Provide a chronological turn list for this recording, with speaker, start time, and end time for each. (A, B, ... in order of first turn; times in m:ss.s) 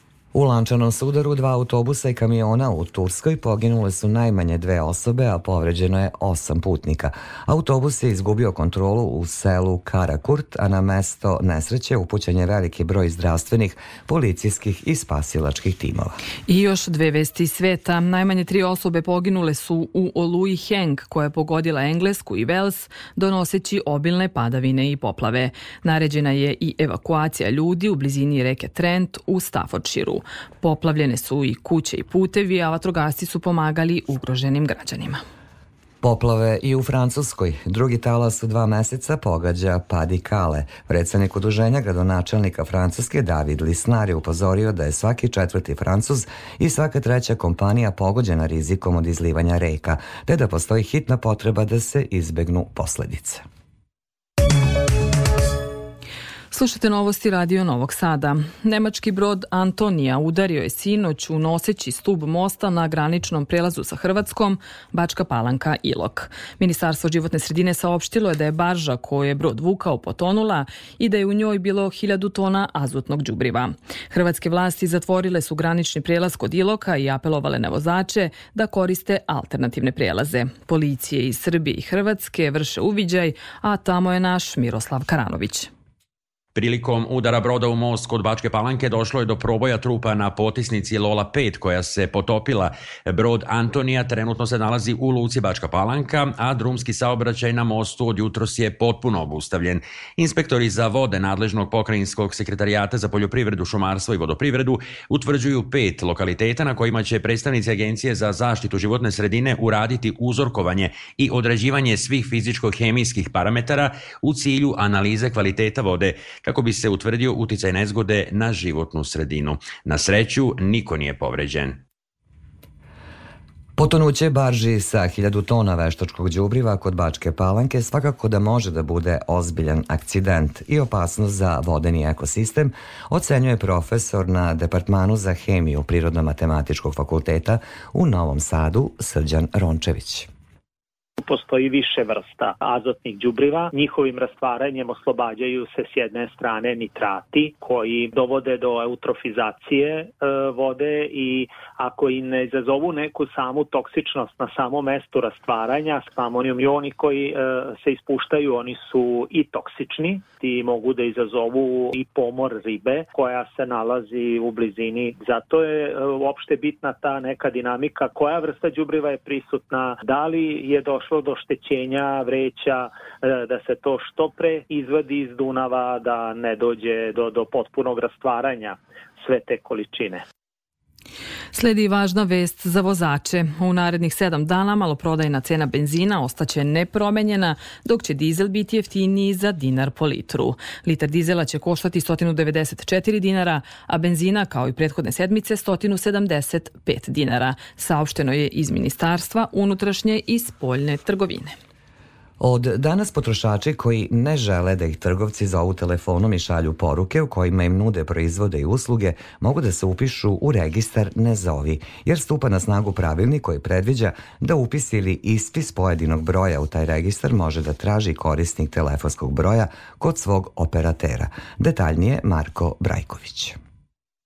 0:00.3-0:16.2 A
0:16.5-0:35.2 B
0:36.0-0:53.4 A
0:56.5-1:25.7 B
1:26.5-2:01.8 C
2:03.8-2:20.3 A
2:21.2-3:00.2 D
3:01.5-3:21.5 B
3:22.4-3:43.6 A